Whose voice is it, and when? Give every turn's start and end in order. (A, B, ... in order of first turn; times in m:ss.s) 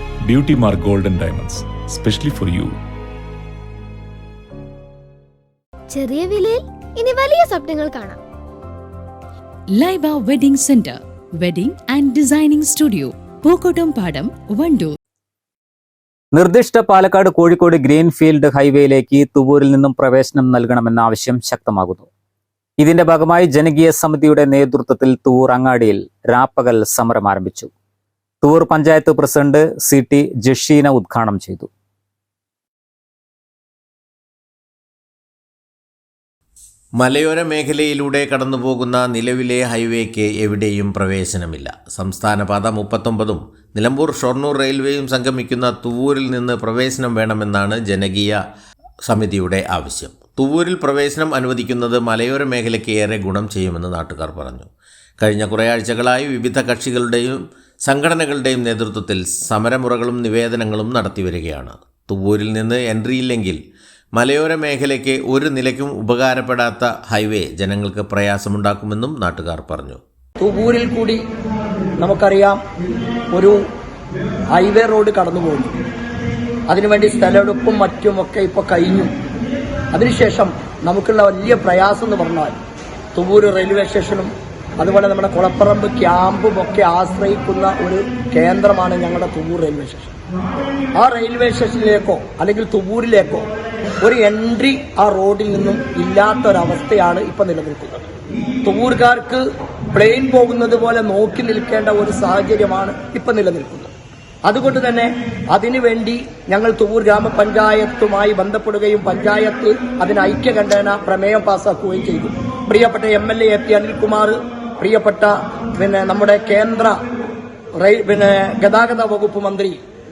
0:00.2-0:02.7 A
0:05.9-0:08.2 B
0:09.8-0:14.9 C
0:16.3-0:22.1 D
0:22.8-0:27.7 D
0:28.4-0:31.7 D
0:37.0-0:48.4 E
0:49.1-0:54.7 E
0:55.2-1:03.6 E
1:04.2-1:10.0 E
1:10.4-1:11.2 F
1:12.0-1:12.6 F
1:13.3-1:13.6 F
1:14.5-1:15.7 F
1:16.7-1:19.1 F
1:19.9-1:22.6 F
1:23.1-1:30.1 F
1:31.0-1:33.5 F
1:34.0-1:38.1 F
1:38.6-1:39.4 F
1:39.9-1:43.9 F
1:44.4-1:57.0 F
1:57.8-1:59.8 F